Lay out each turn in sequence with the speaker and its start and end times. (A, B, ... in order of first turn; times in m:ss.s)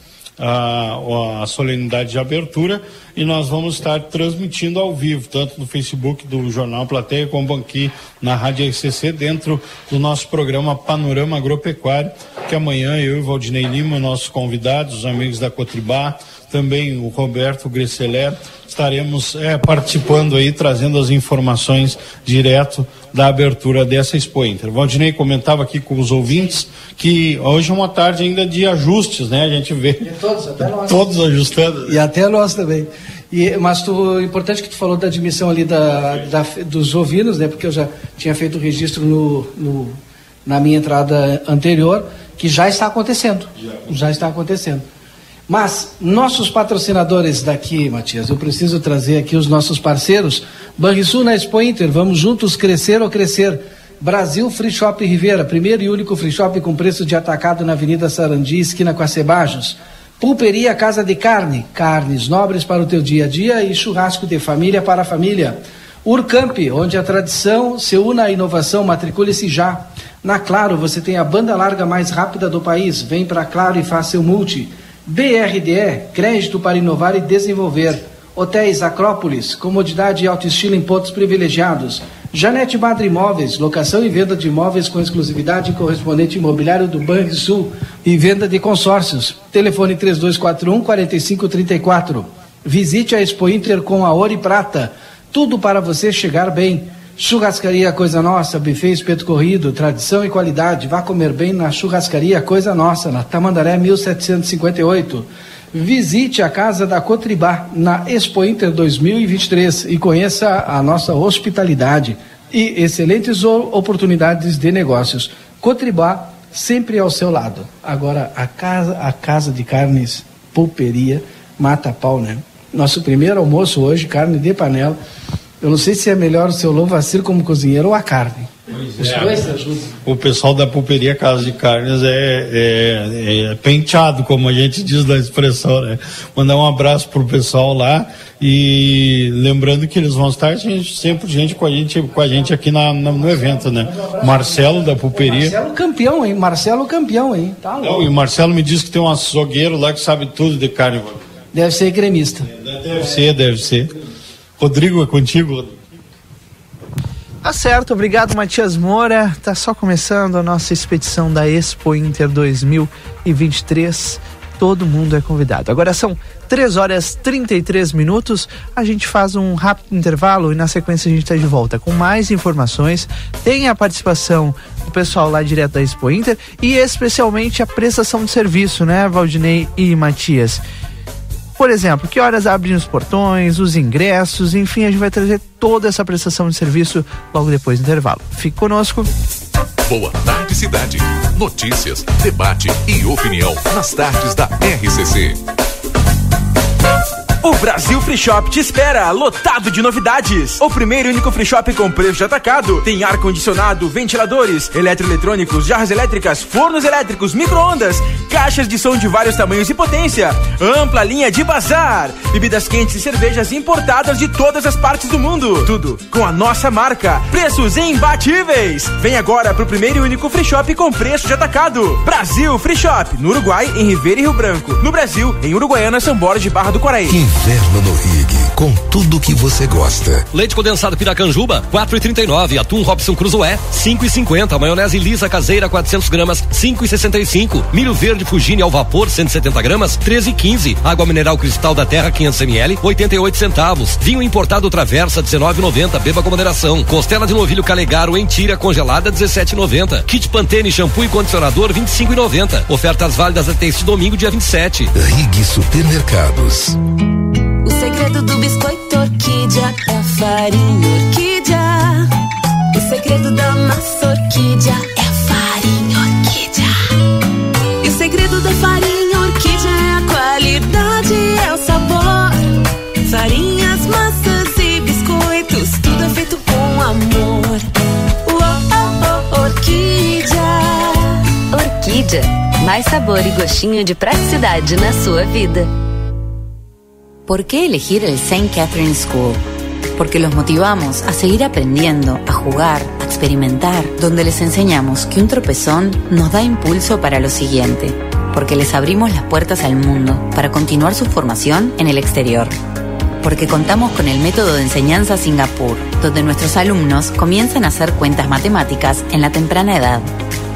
0:00.4-0:30.0 A
0:30.0-0:31.0 B
0:30.6-0:32.0 A
0:31.9-0:44.8 B
0:45.5-2:05.0 B
2:05.6-2:09.9 B
2:08.7-2:09.5 A
2:10.0-2:25.6 A
2:25.1-2:28.1 B
2:27.8-2:31.2 A
2:31.5-2:32.5 B
2:32.5-2:33.9 A
2:34.6-2:35.8 A
2:37.4-3:00.6 C
3:01.6-3:09.1 C
3:09.8-3:15.4 D
3:17.4-3:47.2 E
3:47.1-3:50.2 F
3:50.3-4:14.9 G
4:14.9-4:16.8 F
4:18.2-4:21.9 H
4:22.8-4:26.4 H
4:27.8-4:32.3 H
4:33.1-4:37.3 H
4:39.0-4:40.3 H
4:41.6-4:42.2 I
4:42.8-4:45.6 I
4:47.3-4:49.4 J
4:50.0-5:02.6 J
5:03.2-5:10.1 J